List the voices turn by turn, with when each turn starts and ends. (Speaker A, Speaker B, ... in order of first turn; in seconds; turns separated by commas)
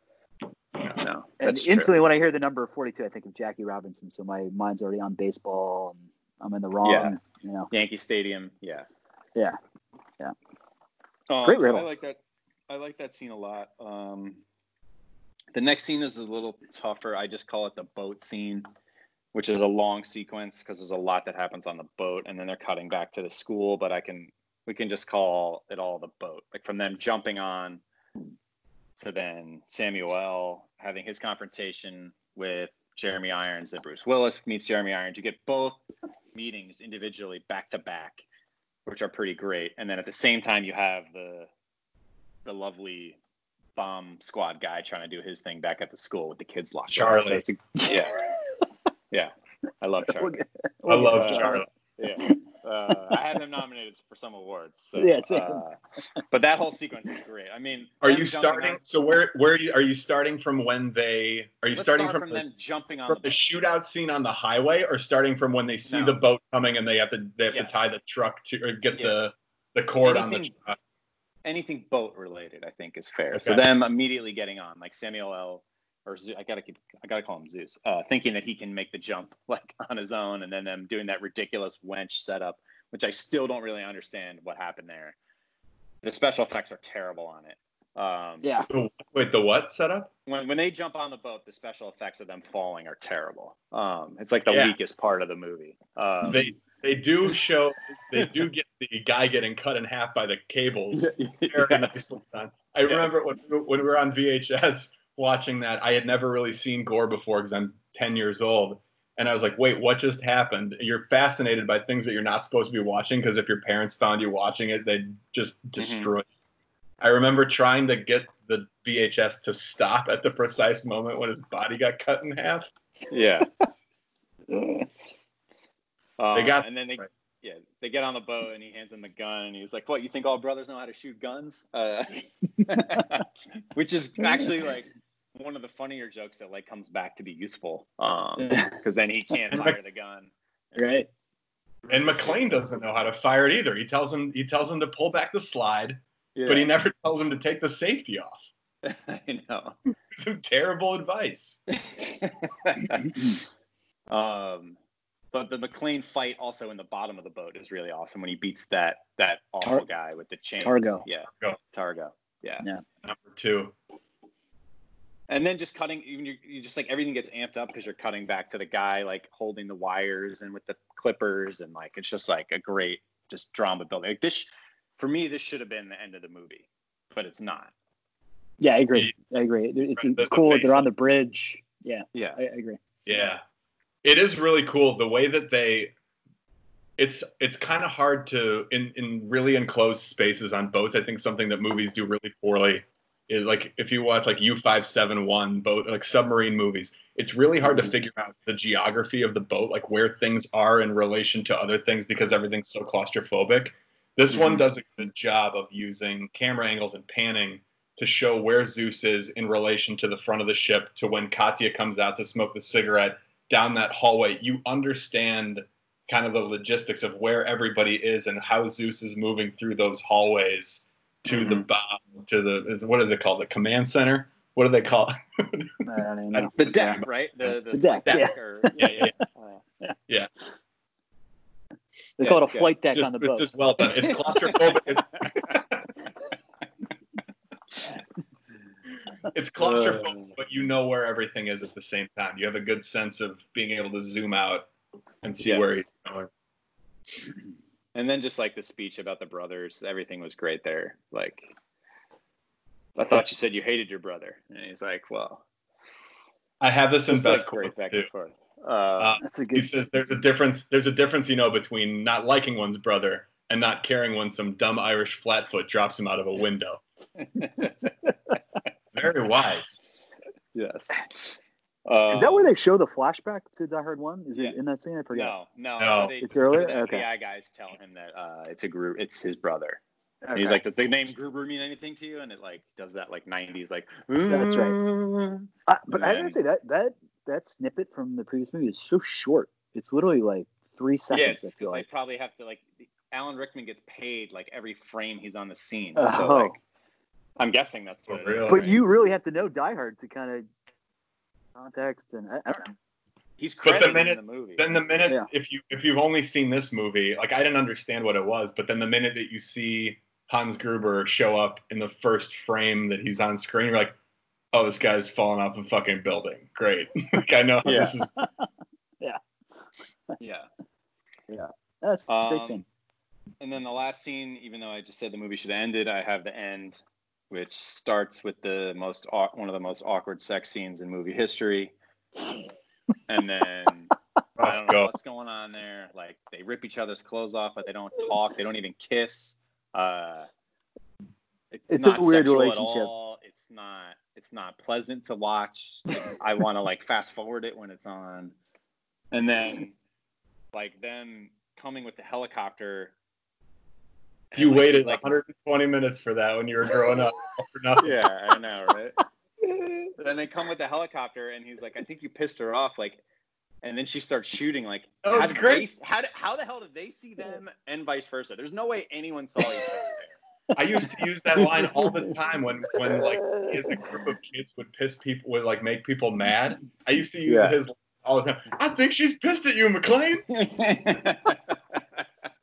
Speaker A: 0.9-1.9, Speaker B: 1.4-7.7, Speaker A: 6.8-7.2, Speaker A: 7.7-8.9, Speaker A: 11.3-14.4, Speaker B: 11.4-11.9, Speaker A: 15.5-18.7, Speaker A: 19.3-27.8, Speaker A: 29.0-35.8, Speaker A: 36.4-38.2, Speaker A: 38.9-41.5, Speaker A: 42.5-43.2, Speaker A: 43.8-48.1, Speaker C: 46.9-47.4, Speaker A: 49.1-50.4, Speaker B: 50.1-51.6, Speaker C: 50.9-51.6, Speaker A: 51.3-55.8, Speaker B: 52.9-53.2, Speaker B: 55.0-55.6, Speaker A: 56.3-58.8, Speaker C: 58.0-62.4, Speaker A: 61.7-63.4, Speaker C: 63.1-70.8, Speaker A: 65.8-66.2, Speaker A: 67.5-67.9, Speaker A: 70.0-70.5, Speaker A: 71.5-85.2, Speaker C: 73.3-73.6, Speaker A: 86.0-88.5, Speaker C: 88.7-90.1, Speaker A: 90.3-96.5, Speaker C: 94.5-94.8, Speaker C: 96.3-116.3, Speaker A: 100.9-102.1, Speaker A: 102.9-103.2, Speaker A: 115.8-116.1, Speaker C: 117.0-122.7, Speaker A: 123.1-123.5, Speaker B: 124.5-124.9, Speaker A: 126.2-141.0, Speaker C: 126.3-127.1, Speaker B: 138.4-138.7, Speaker B: 140.8-141.1, Speaker A: 141.9-142.6, Speaker C: 141.9-148.5, Speaker A: 146.4-146.7, Speaker A: 148.8-149.8, Speaker C: 150.1-151.6, Speaker A: 151.9-153.4, Speaker A: 154.1-154.8, Speaker A: 155.3-162.7, Speaker B: 160.6-161.0, Speaker C: 163.0-163.7, Speaker A: 165.3-177.7, Speaker B: 178.6-182.8, Speaker C: 180.0-180.9, Speaker A: 182.1-182.4, Speaker C: 183.1-183.4, Speaker C: 184.0-185.9, Speaker C: 187.0-227.5, Speaker A: 221.3-221.6, Speaker B: 225.9-227.0, Speaker A: 226.6-228.8, Speaker B: 227.7-229.1, Speaker C: 228.1-229.1, Speaker A: 229.3-229.6, Speaker B: 232.2-233.5, Speaker A: 232.2-232.7, Speaker C: 232.9-235.9, Speaker A: 234.0-235.6, Speaker C: 239.3-244.7, Speaker A: 239.6-240.3, Speaker C: 245.2-246.3, Speaker A: 245.4-245.9, Speaker A: 247.9-251.5, Speaker A: 253.0-255.4, Speaker C: 256.6-258.1, Speaker A: 257.1-259.2, Speaker C: 259.0-266.8, Speaker B: 259.2-259.7, Speaker A: 267.2-267.8, Speaker C: 268.9-269.8, Speaker A: 270.5-271.4, Speaker A: 271.9-272.5, Speaker B: 272.1-275.3, Speaker A: 275.1-279.8, Speaker C: 275.8-276.1, Speaker B: 276.2-277.1, Speaker B: 280.2-280.6, Speaker A: 280.3-286.4, Speaker B: 284.2-284.8, Speaker B: 285.7-291.8, Speaker A: 291.1-296.6, Speaker B: 296.0-296.6, Speaker A: 297.4-298.9, Speaker C: 298.1-298.6, Speaker B: 298.5-300.5, Speaker B: 301.6-302.8, Speaker A: 303.4-304.6, Speaker C: 303.6-313.9, Speaker C: 314.5-318.1, Speaker A: 317.6-317.9, Speaker A: 320.2-320.5, Speaker B: 321.3-322.6, Speaker A: 322.1-322.6, Speaker A: 323.4-331.7, Speaker A: 333.1-340.3, Speaker C: 334.4-334.9, Speaker A: 341.5-348.4, Speaker B: 341.7-342.9, Speaker A: 349.1-349.7, Speaker A: 350.5-352.9, Speaker A: 354.3-355.1, Speaker C: 354.4-358.0, Speaker A: 357.8-359.0, Speaker B: 359.4-359.9, Speaker A: 360.0-363.0, Speaker A: 363.6-370.2, Speaker C: 365.0-365.6, Speaker C: 370.6-380.3, Speaker A: 371.4-371.7, Speaker B: 373.2-373.6, Speaker A: 377.3-377.6, Speaker A: 380.3-382.0